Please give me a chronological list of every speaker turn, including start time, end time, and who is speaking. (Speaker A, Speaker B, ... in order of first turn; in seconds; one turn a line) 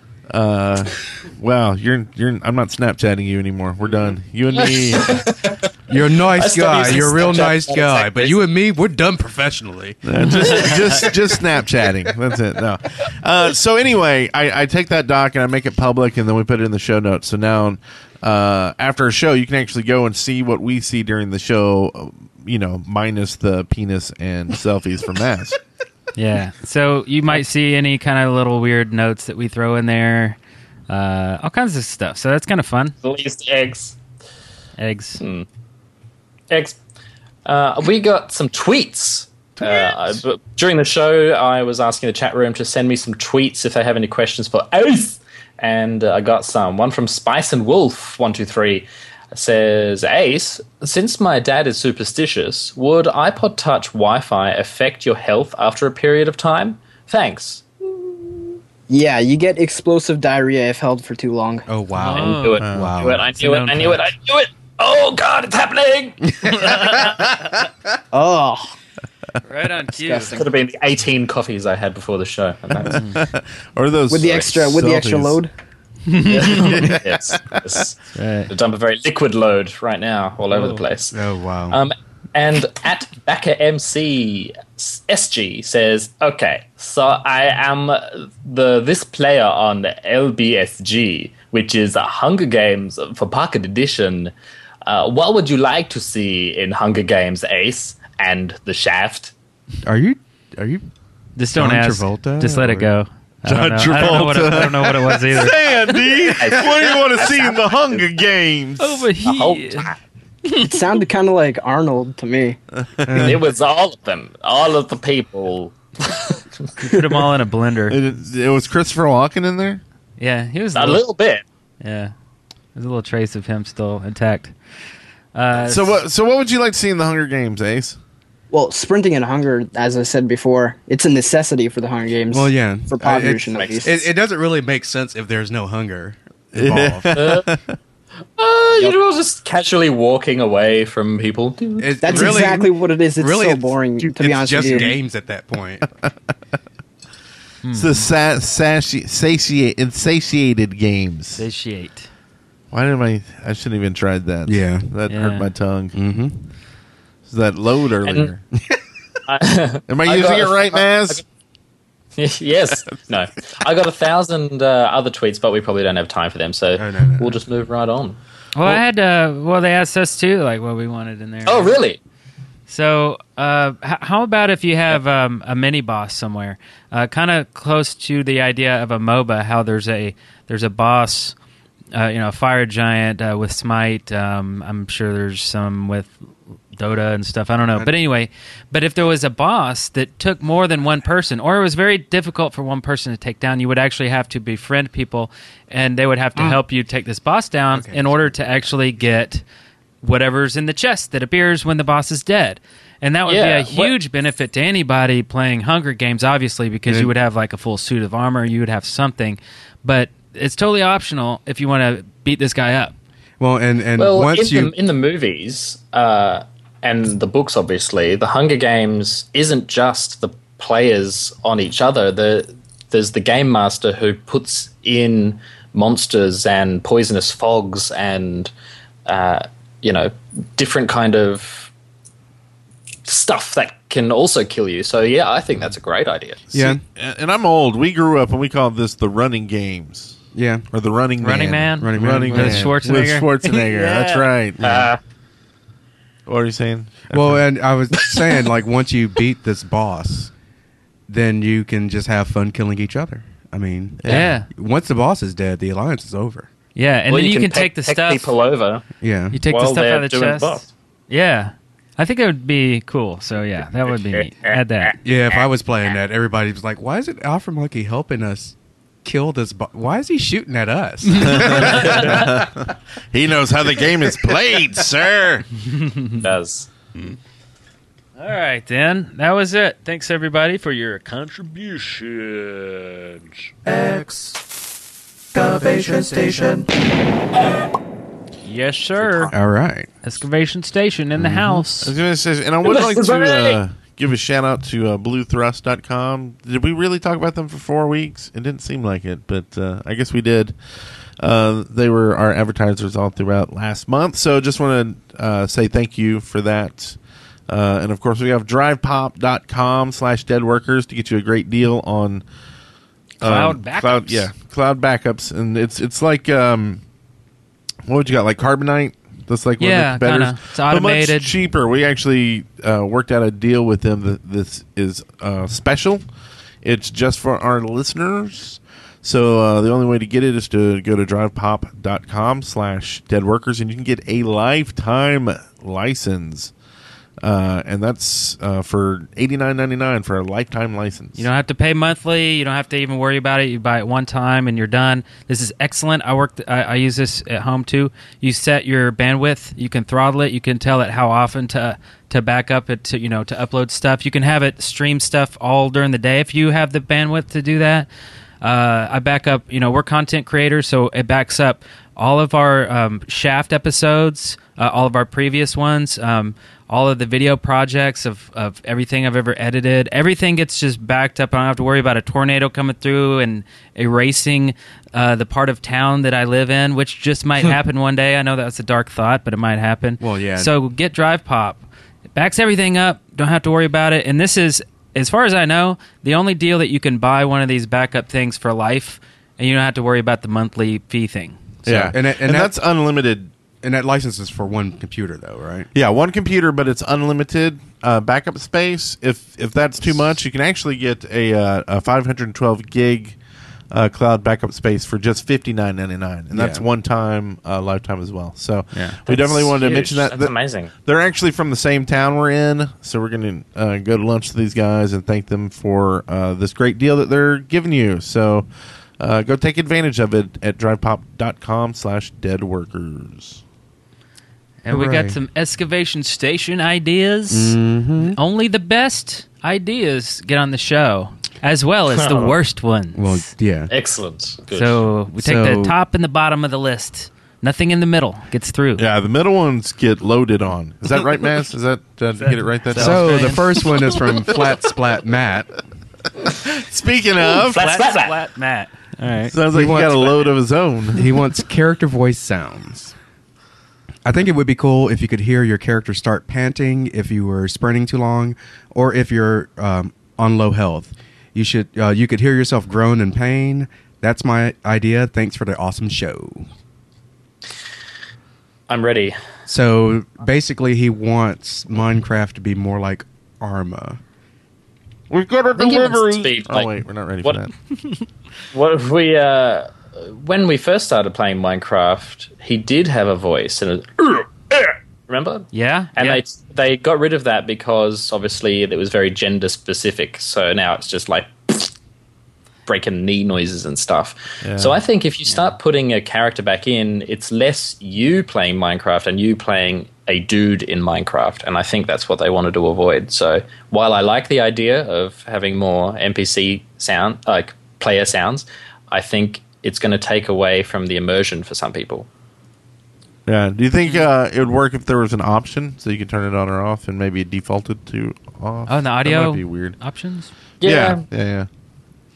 Speaker A: 0.3-5.3
Speaker B: 4.5-5.6
Speaker C: 5.9-10.4
Speaker B: 6.3-8.4
Speaker A: 10.1-25.6
Speaker D: 26.1-30.4
Speaker D: 30.9-33.0
Speaker B: 33.0-34.0
Speaker D: 34.8-35.2
Speaker B: 35.2-35.5
Speaker B: 36.5-36.8
Speaker B: 37.5-57.6
Speaker E: 58.9-61.7
Speaker C: 61.7-63.3
Speaker D: 62.0-62.7
Speaker B: 62.2-67.1
Speaker A: 62.6-63.0
Speaker D: 63.4-64.0
Speaker D: 66.6-67.1
Speaker E: 68.1-68.7
Speaker D: 69.5-70.5
Speaker E: 70.0-70.4
Speaker B: 70.3-73.0
Speaker D: 72.9-73.3
Speaker A: 72.9-75.4
Speaker E: 74.1-75.5
Speaker D: 76.1-76.9
Speaker B: 76.3-81.2
Speaker A: 76.4-77.6
Speaker D: 78.2-78.5
Speaker D: 80.5-80.8
Speaker C: 81.1-81.8
Speaker B: 81.7-94.3
Speaker B: 94.8-99.3
Speaker C: 99.8-100.9
Speaker D: 101.4-105.6
Speaker C: 101.5-102.9
Speaker A: 103.5-109.1
Speaker B: 106.3-108.0
Speaker D: 108.8-109.9
Speaker B: 109.2-110.0
Speaker D: 110.5-110.8
Speaker E: 110.6-112.6
Speaker A: 112.8-113.3
Speaker C: 113.0-113.4
Speaker B: 113.2-116.7
Speaker D: 116.8-118.0
Speaker A: 117.9-119.8
Speaker D: 120.2-121.0
Speaker B: 120.7-121.4
Speaker D: 121.8-122.1
Speaker D: 122.8-124.5
Speaker D: 125.3-126.0
Speaker A: 125.5-128.0
Speaker E: 128.5-134.1
Speaker C: 132.3-137.2
Speaker B: 133.6-133.9
Speaker A: 136.6-137.7
Speaker B: 137.1-137.5
Speaker B: 138.4-142.5
Speaker C: 141.8-145.9
Speaker E: 142.0-144.9
Speaker D: 147.6-148.1
Speaker A: 147.7-151.4
Speaker D: 151.4-152.1
Speaker A: 152.7-156.0
Speaker C: 154.5-154.9
Speaker D: 155.1-155.5
Speaker C: 155.9-156.5
Speaker A: 157.3-158.4
Speaker B: 158.1-158.3
Speaker B: 159.3-161.2
Speaker A: 159.9-161.2
Speaker B: 162.2-168.2
Speaker C: 166.8-167.4
Speaker D: 168.6-171.8
Speaker B: 171.5-172.0
Speaker D: 172.7-181.3
Speaker D: 181.9-186.2
Speaker D: 186.7-199.4
Speaker C: 197.7-198.4
Speaker D: 200.0-212.9
Speaker B: 203.3-203.9
Speaker C: 206.9-207.1
Speaker C: 213.4-214.7
Speaker B: 214.0-228.5
Speaker B: 229.1-231.7
Speaker B: 233.1-236.4
Speaker C: 236.5-236.8
Speaker A: 236.5-240.2
Speaker C: 240.3-240.7
Speaker A: 240.7-244.9
Speaker D: 241.2-244.3
Speaker C: 241.8-242.8
Speaker B: 244.6-245.0
Speaker A: 246.3-247.4
Speaker C: 247.1-250.3
Speaker C: 251.1-256.5
Speaker A: 254.0-254.4
Speaker D: 254.1-254.5
Speaker D: 256.8-258.3
Speaker B: 257.1-258.8
Speaker C: 259.0-259.4
Speaker D: 259.3-264.9
Speaker B: 259.5-260.7
Speaker B: 263.9-264.9
Speaker C: 265.1-272.2
Speaker A: 271.2-275.5
Speaker D: 271.2-271.6
Speaker D: 275.7-276.2
Speaker B: 276.2-276.7
Speaker D: 278.2-283.6
Speaker D: 285.6-286.1
Speaker D: 288.4-289.3
Speaker C: 289.3-289.9
Speaker D: 290.0-291.9
Speaker C: 291.2-291.6
Speaker A: 291.8-300.6
Speaker B: 292.6-293.6
Speaker A: 301.2-312.2
Speaker D: 313.2-314.3
Speaker A: 313.2-316.8
Speaker A: 317.9-326.0
Speaker D: 319.6-321.3
Speaker A: 326.6-336.5
Speaker A: 337.2-341.3
Speaker D: 341.2-357.9
Speaker D: 358.4-381.6
Speaker C: 380.0-380.5
Speaker D: 382.1-391.9
Speaker A: 391.6-393.3
Speaker C: 391.9-392.5
Speaker C: 393.6-395.7
Speaker A: 395.7-403.2
Speaker A: 403.7-418.5
Speaker C: 406.3-406.6
Speaker D: 408.7-409.0
Speaker B: 409.1-410.7
Speaker A: 419.0-423.4
Speaker D: 424.6-433.3
Speaker C: 424.7-425.2
Speaker C: 427.3-428.2
Speaker B: 431.9-432.4
Speaker C: 432.9-433.7
Speaker B: 433.7-434.9
Speaker D: 434.5-438.8
Speaker C: 435.2-435.8
Speaker A: 438.8-443.4
Speaker D: 442.2-444.0
Speaker C: 442.8-445.5
Speaker A: 446.2-447.6
Speaker B: 447.4-448.2
Speaker D: 447.5-449.4
Speaker A: 449.3-451.0
Speaker C: 449.5-450.2
Speaker C: 450.9-453.0
Speaker C: 454.1-466.5
Speaker B: 468.7-469.2
Speaker C: 469.5-474.0
Speaker A: 475.1-477.5
Speaker B: 475.6-477.4
Speaker B: 478.5-491.7
Speaker D: 485.5-486.2
Speaker B: 492.7-512.1
Speaker A: 494.4-494.8
Speaker A: 513.3-519.8
Speaker D: 518.7-520.3
Speaker B: 520.6-521.0
Speaker A: 520.6-521.5